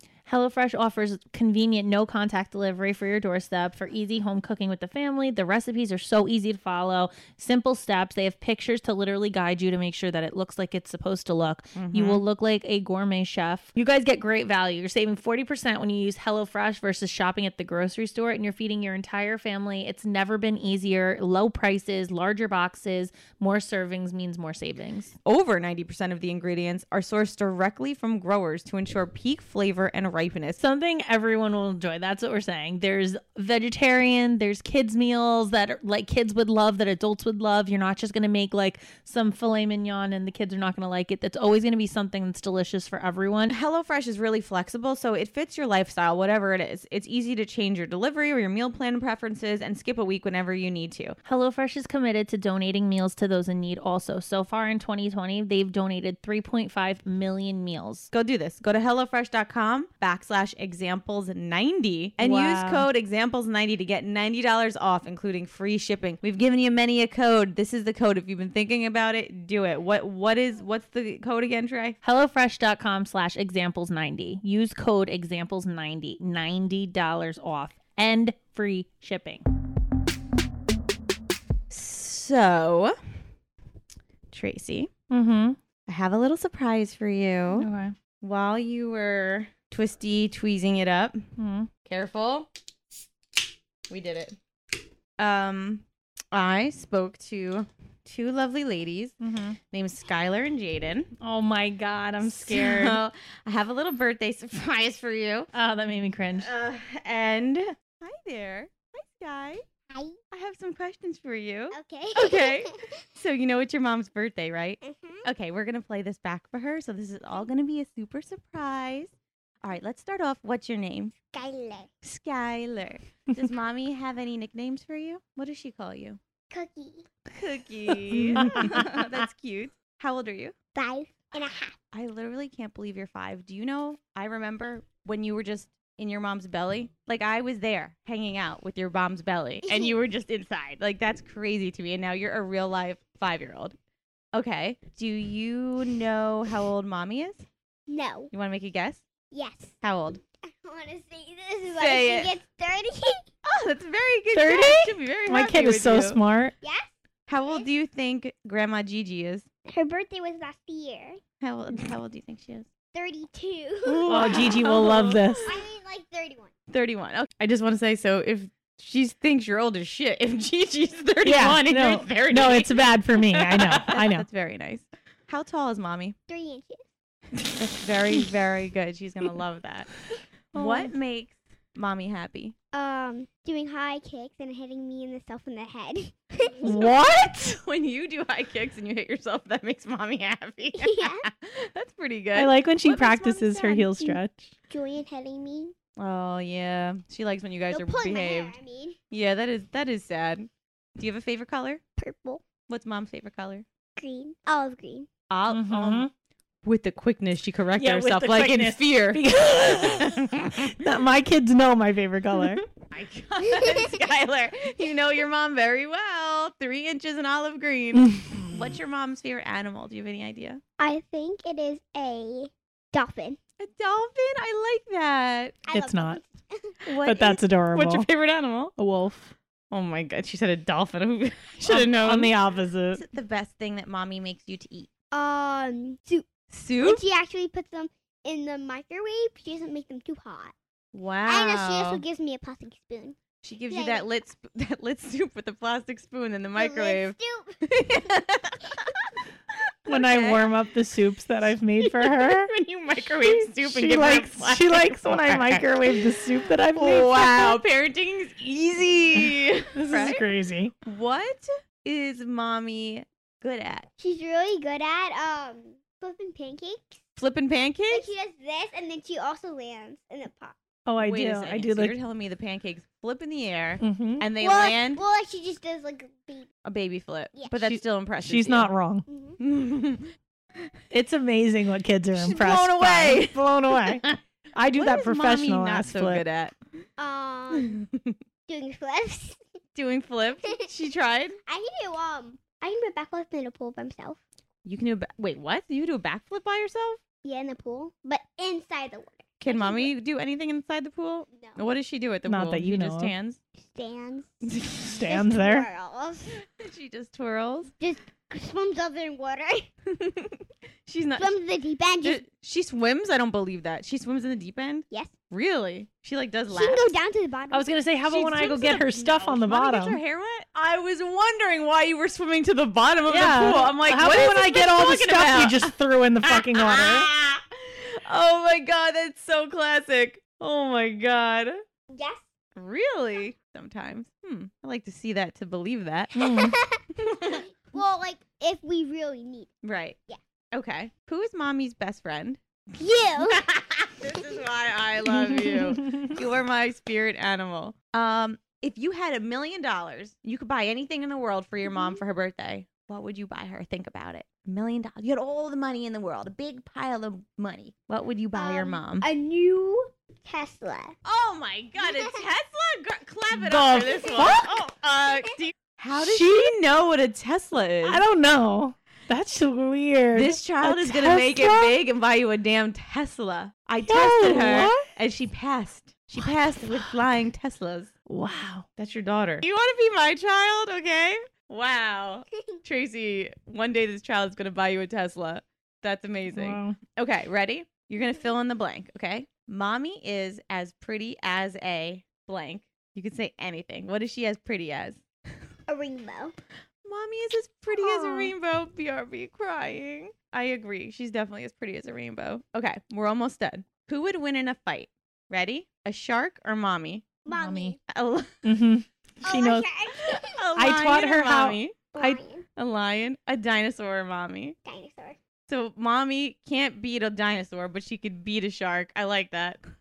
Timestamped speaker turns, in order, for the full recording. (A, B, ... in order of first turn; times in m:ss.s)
0:00.2-0:25.1 A
0:11.7-0:12.2 B
0:25.2-0:30.6 B
0:30.6-0:43.5 A
0:43.5-0:51.2 B
0:51.2-0:58.1 A
0:58.1-1:12.0 B
1:02.2-1:02.9 A
1:12.0-1:19.4 A
1:21.7-1:23.0 B
1:24.3-1:24.9 B
1:25.1-1:25.6 A
1:25.8-1:27.7 B
1:27.5-1:27.9 A
1:28.2-1:31.2 B
1:31.4-1:31.7 A
1:31.8-1:32.5 B
1:33.9-1:34.4 B
1:35.2-1:39.2 B
1:39.2-1:39.6 A
1:39.7-1:41.1 B
1:41.2-1:43.0 A
1:42.2-1:45.5 B
1:45.5-1:46.5 A
1:46.4-1:49.6 B
1:49.9-1:50.2 C
1:50.3-2:01.1 B
1:51.7-1:53.0 C
1:54.8-1:55.2 C
2:01.2-2:01.9 C
2:02.0-2:06.2 B
2:06.5-2:07.0 C
2:07.3-2:10.5 B
2:08.4-2:08.8 A
2:10.7-2:11.8 C
2:11.9-2:23.8 B
2:19.6-2:20.0 C
2:24.3-2:27.4 B
2:27.9-2:28.3 C
2:28.3-2:29.0 B
2:29.3-2:29.8 C
2:29.8-2:30.2 B
2:30.5-2:33.3 C
2:31.7-2:32.3 B
2:33.4-2:36.2 B
2:34.3-2:36.5 A
2:36.6-2:36.9 C
2:37.3-2:39.5 B
2:39.7-2:41.2 C
2:41.4-2:42.7 B
2:42.9-2:44.6 C
2:43.9-2:45.5 B
2:44.0-2:45.5 A
2:45.4-2:46.5 C
2:46.7-2:56.2 B
2:51.2-2:54.3 A
2:56.3-2:56.8 C
2:57.4-2:59.9 B
3:00.5-3:02.6 B
3:00.5-3:00.9 A
3:02.7-3:06.9 C
3:06.6-3:07.6 A
3:07.2-3:14.1 B
3:10.7-3:11.3 C
3:12.3-3:14.5 A
3:14.7-3:15.7 C
3:16.0-3:18.6 B
3:17.7-3:19.0 C
3:19.1-3:21.8 B
3:22.0-3:22.4 C
3:22.7-3:23.6 B
3:24.0-3:25.1 C
3:25.3-3:26.1 B
3:25.5-3:26.1 A
3:26.6-3:30.7 B
3:27.8-3:32.6 A
3:32.8-3:40.6 B
3:33.4-3:34.0 C
3:37.9-3:38.7 A
3:40.8-3:43.4 C
3:43.6-3:45.6 B
3:45.7-3:46.8 C
3:45.7-3:46.2 A
3:46.8-3:48.7 B
3:47.0-3:48.1 A
3:48.8-3:49.3 A
3:49.7-3:52.3 B
3:51.6-3:53.0 A
3:52.9-3:54.9 B
3:55.1-4:00.5 C
3:56.5-3:57.0 B
4:00.9-4:02.0 B
4:01.3-4:03.2 C
4:03.4-4:08.9 B
4:03.7-4:04.0 C
4:06.5-4:08.1 C
4:09.9-4:10.4 B
4:09.9-4:12.5 A
4:11.9-4:15.8 B
4:13.2-4:17.6 A
4:16.7-4:20.2 B
4:19.2-4:20.7 A
4:20.8-4:23.9 B
4:24.0-4:27.2 C
4:27.2-4:28.1 B
4:27.9-4:30.6 C
4:30.8-4:32.0 A
4:31.0-4:35.0 B
4:33.8-4:34.3 A
4:34.4-4:36.5 C
4:36.6-4:38.7 B
4:37.3-4:37.6 C
4:37.6-4:39.0 A
4:39.1-4:39.4 C
4:39.4-4:40.1 B
4:40.9-4:46.2 A
4:42.1-4:44.2 B
4:44.7-4:46.6 B
4:47.0-4:47.8 C
4:47.6-4:48.1 B
4:48.5-4:49.4 C
4:49.7-4:51.4 B
4:51.5-4:54.2 C
4:54.6-4:57.0 B
4:57.2-4:59.9 C
4:59.4-5:03.4 B
5:01.3-5:01.6 C
5:02.3-5:03.1 A
5:03.6-5:04.3 C
5:04.5-5:04.8 B
5:04.8-5:05.7 A
5:05.0-5:06.4 C
5:06.4-5:07.7 B
5:07.8-5:09.7 C
5:09.9-5:11.3 B
5:11.2-5:12.2 C
5:12.0-5:16.9 B
5:14.9-5:15.2 C
5:16.5-5:17.7 C
5:17.5-5:20.0 A
5:18.1-5:25.7 B
5:23.1-5:27.1 A
5:24.0-5:24.5 C
5:26.2-5:31.6 B
5:31.9-5:32.2 C
5:32.5-5:36.2 B
5:36.2-5:36.6 A
5:36.2-5:39.5 C
5:37.0-5:37.4 B
5:39.6-5:40.0 B
5:40.5-5:42.4 B
5:42.8-5:43.4 C
5:42.9-5:59.1 B
5:45.2-5:46.1 A
5:51.6-5:52.0 C
5:58.3-6:01.0 C
6:01.0-6:08.0 B
6:01.8-6:02.2 C
6:03.3-6:04.5 A
6:04.0-6:04.4 C
6:05.9-6:06.5 A
6:07.8-6:11.8 A
6:10.1-6:17.9 B
6:13.8-6:14.8 A
6:16.2-6:16.9 A
6:18.1-6:18.6 A
6:18.8-6:35.0 B
6:26.3-6:26.8 A
6:35.7-6:36.3 C
6:36.8-6:47.2 B
6:37.7-6:38.3 C
6:47.2-6:47.8 C
6:47.3-6:47.7 A
6:47.8-6:48.4 B
6:48.4-6:49.6 A
6:49.2-6:50.4 C
6:50.1-6:51.9 B
6:50.6-6:52.2 A
6:51.9-6:52.4 C
6:52.6-6:54.6 B
6:54.6-6:55.2 C
6:55.5-6:59.6 B